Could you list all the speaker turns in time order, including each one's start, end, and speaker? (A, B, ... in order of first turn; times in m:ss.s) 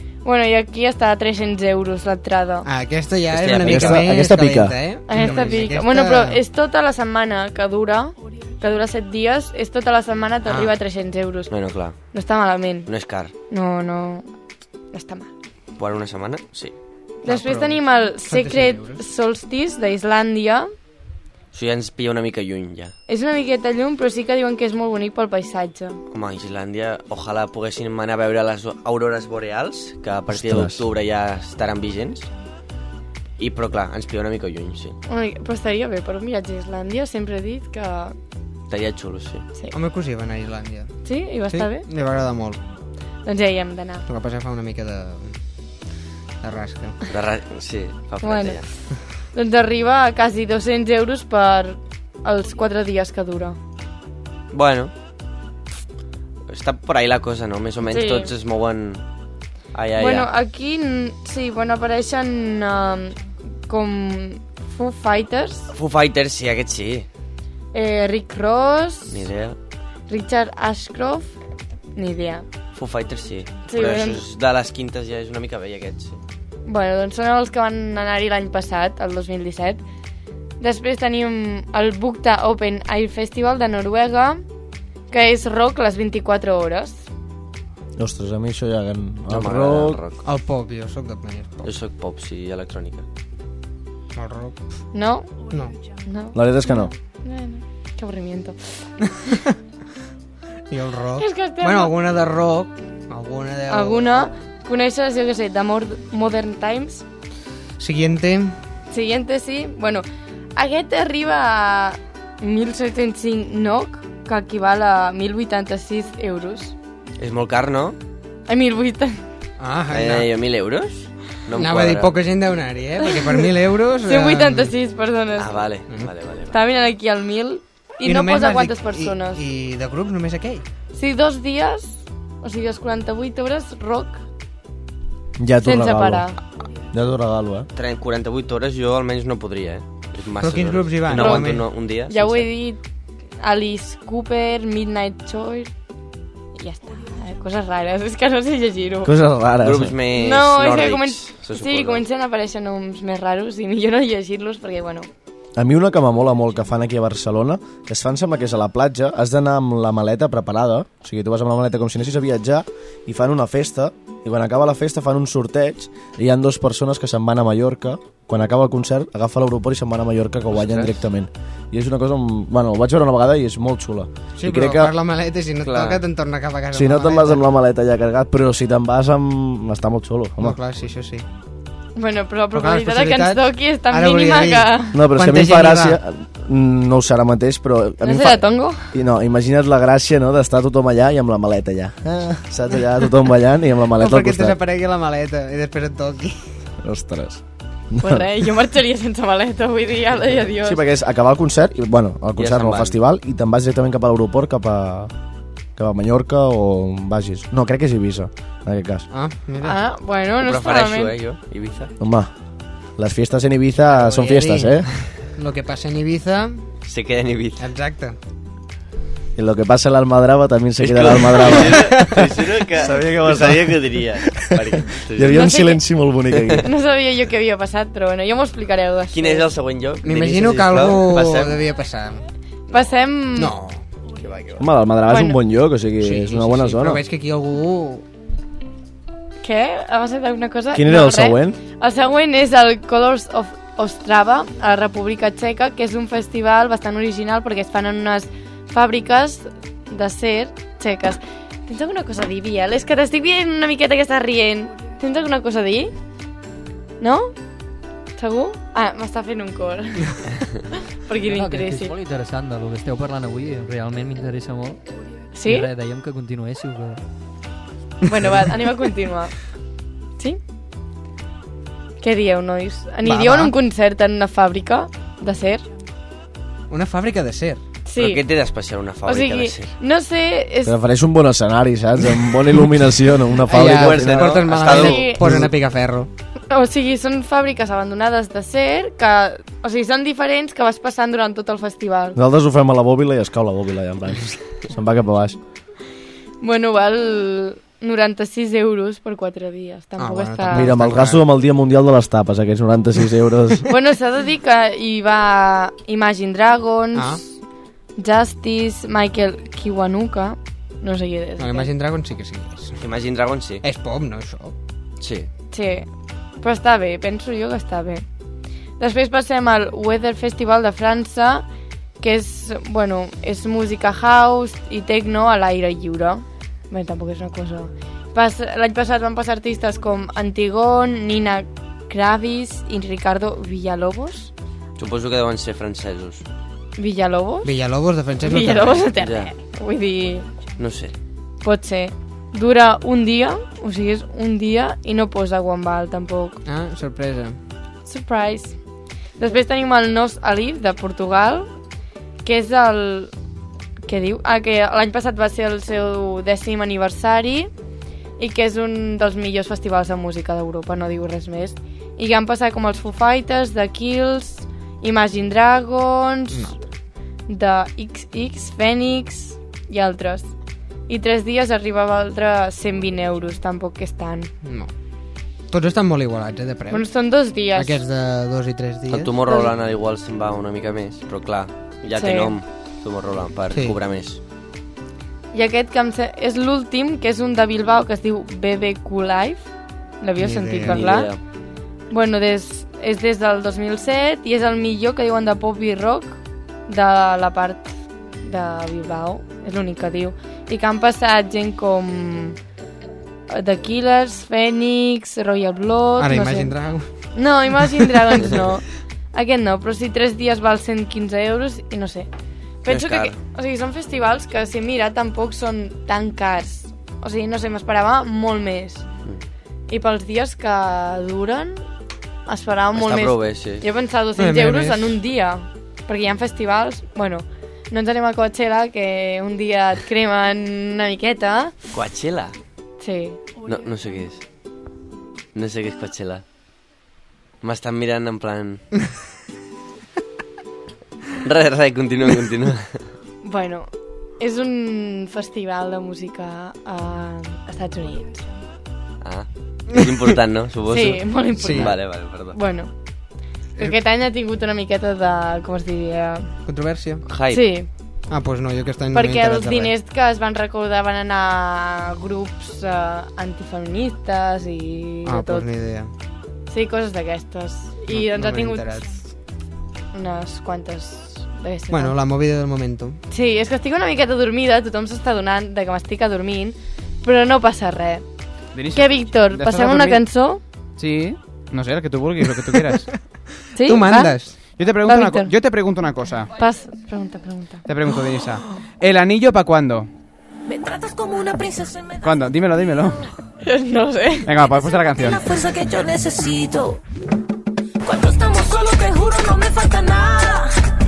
0:00.2-0:02.7 A
0:02.6-0:06.4 B
0:03.3-0:04.1 C
0:03.6-0:04.8 D
0:05.1-0:11.5 A
0:10.4-0:10.7 B
0:11.5-0:12.0 C
0:12.1-0:12.9 A
0:12.9-0:13.3 C
0:13.5-0:14.3 A
0:14.9-0:15.3 A
0:15.8-0:16.7 C
0:17.2-0:20.7 A
0:17.2-0:19.0 B
0:21.5-0:22.9 C
0:23.1-0:26.0 A
0:26.1-0:32.3 C
0:30.3-0:30.8 D
0:33.4-0:35.0 C
0:35.1-0:38.2 A
0:38.7-0:39.5 C
0:39.7-0:40.9 B
0:41.0-0:41.8 A
0:41.5-0:42.6 B
0:43.2-0:44.0 A
0:44.0-0:45.4 B
0:46.4-0:47.0 B
0:47.1-0:48.7 C
0:48.2-0:48.7 A
0:49.3-0:53.6 A
0:54.5-0:54.9 C
0:56.5-0:59.0 C
0:57.9-0:58.3 A
0:59.7-1:00.3 C
1:00.0-1:05.7 A
1:05.7-1:07.1 C
1:07.7-1:09.2 A
1:09.1-1:09.6 C
1:10.1-1:11.3 A
1:12.0-1:12.4 A
1:12.7-1:16.2 C
1:13.7-1:14.2 A
1:16.6-1:19.8 A
1:20.6-1:24.4 A
1:25.1-1:27.0 A
1:28.0-1:30.0 D
1:29.3-1:30.2 C
1:30.2-1:31.7 B
1:31.6-1:33.0 C
1:34.1-1:34.6 B
1:34.9-1:35.4 A
1:36.0-1:38.8 A
1:36.3-1:36.9 D
1:39.2-1:39.5 B
1:40.7-1:44.3 B
1:41.2-1:41.9 A
1:43.7-1:47.0 A
1:47.8-1:48.6 B
1:48.9-1:56.7 A
1:57.2-1:58.0 C
1:58.5-1:59.2 A
1:59.6-2:00.3 B
1:59.9-2:02.2 C
2:01.5-2:04.7 B
2:04.0-2:05.5 A
2:05.4-2:06.6 C
2:06.5-2:09.4 A
2:08.0-2:10.6 B
2:10.9-2:14.2 A
2:15.4-2:16.3 D
2:15.6-2:16.4 A
2:16.9-2:17.7 D
2:17.7-2:22.5 C
2:20.4-2:21.7 B
2:21.2-2:22.8 A
2:23.4-2:25.7 A
2:26.6-2:29.1 A
2:29.0-2:30.0 D
2:29.6-2:32.0 C
2:30.2-2:35.1 A
2:35.6-2:54.9 D
2:50.5-2:51.0 C
2:54.4-2:57.4 B
2:55.6-2:56.0 C
2:56.7-3:00.6 D
3:00.4-3:01.2 B
3:02.0-3:05.0 A
3:02.5-3:06.0 B
3:04.9-3:14.6 D
3:08.0-3:08.9 A
3:14.0-3:16.4 B
3:16.8-3:18.4 D
3:18.0-3:20.8 A
3:20.6-3:25.1 D
3:22.4-3:23.0 C
3:25.8-3:29.0 D
3:29.1-3:29.8 B
3:29.6-3:31.1 A
3:30.4-3:31.9 C
3:32.0-3:32.3 D
3:33.0-3:34.9 D
3:33.8-3:36.6 B
3:36.8-3:37.6 C
3:37.6-3:38.2 B
3:39.4-3:46.7 D
3:40.8-3:45.4 C
3:45.3-3:45.8 A
3:46.6-3:49.4 A
3:49.1-3:51.5 C
3:50.0-3:52.2 B
3:52.7-3:53.5 A
3:53.3-3:53.8 B
3:54.6-3:57.0 D
3:55.1-3:55.4 A
3:56.0-3:58.0 B
3:59.4-4:15.9 A
4:00.7-4:01.6 D
4:17.0-4:17.3 A
4:18.2-4:20.2 A
4:21.0-4:21.9 A
4:21.3-4:24.8 E
4:25.3-4:25.7 A
4:25.4-4:27.0 E
4:28.1-4:29.3 A
4:32.0-4:35.6 A
4:33.0-4:33.5 B
4:36.7-4:37.6 B
4:37.8-4:38.2 A
4:37.9-4:39.7 C
4:39.0-4:40.7 A
4:40.6-4:44.6 D
4:43.5-4:46.1 B
4:43.6-4:45.3 C
4:44.7-4:45.2 A
4:45.2-4:45.5 D
4:46.5-4:52.2 A
4:52.1-4:55.4 D
4:56.4-5:00.7 A
5:00.0-5:01.2 B
5:00.5-5:03.6 D
5:03.7-5:07.3 A
5:06.9-5:07.2 B
5:08.0-5:11.7 A
5:11.4-5:12.8 B
5:12.8-5:13.6 C
5:13.6-5:14.5 B
5:15.0-5:15.3 C
5:15.5-5:15.9 A
5:16.4-5:18.0 A
5:18.8-5:21.4 A
5:22.0-5:34.3 A
5:34.8-5:36.2 C
5:36.8-5:37.5 A
5:37.4-5:38.9 B
5:38.2-5:40.3 A
5:39.0-5:39.3 C
5:40.6-5:40.9 C
5:41.4-5:46.4 A
5:46.4-5:47.4 B
5:47.8-5:48.6 A
5:49.2-5:51.5 A
5:52.2-5:53.1 A
5:53.8-5:57.5 A
5:58.2-6:06.5 A
6:06.3-6:06.6 B
6:07.3-6:10.3 A
6:10.9-6:14.3 A
6:14.4-6:14.7 B
6:15.5-6:16.8 B
6:16.7-6:17.8 A
6:17.5-6:19.4 B
6:18.9-6:24.2 C
6:22.0-6:22.3 A
6:23.5-6:23.8 B
6:25.3-6:29.5 A
6:30.0-6:31.1 A
6:30.2-6:30.9 B
6:30.6-6:31.2 C
6:31.9-6:42.4 A
6:43.3-6:46.5 A
6:46.0-6:46.9 B
6:47.1-6:52.1 A
6:52.6-6:58.8 A
6:52.7-6:53.2 C
6:59.7-7:01.6 A
7:02.3-7:11.5 A
7:02.7-7:03.6 C
7:04.2-7:05.0 B
7:11.7-7:12.4 C
7:12.8-7:13.2 A
7:13.4-7:14.2 C
7:15.3-7:16.2 C
7:17.4-7:18.6 C
7:21.2-7:22.8 C
7:23.2-7:28.2 A
7:29.0-7:32.4 C
7:30.7-7:32.7 A
7:31.4-7:31.7 B
7:33.6-7:36.3 A
7:36.4-7:37.0 B
7:37.0-7:37.4 C
7:37.3-7:37.7 A
7:38.1-7:39.7 B
7:38.9-7:45.5 A
7:45.0-7:45.9 B
7:46.5-7:48.8 A
7:47.9-7:49.0 B
7:49.9-7:51.9 A
7:51.7-7:53.0 B
7:53.1-7:58.0 A
7:58.5-8:00.0 F
7:58.7-8:00.4 A
8:00.8-8:02.9 F
8:03.6-8:05.3 A
8:03.6-8:04.3 B
8:04.6-8:06.3 F
8:06.4-8:07.6 A
8:07.7-8:09.9 F
8:10.5-8:12.0 G
8:12.0-8:13.0 F
8:13.4-8:14.3 A
8:14.2-8:15.2 F
8:15.0-8:16.8 G
8:17.8-8:20.5 G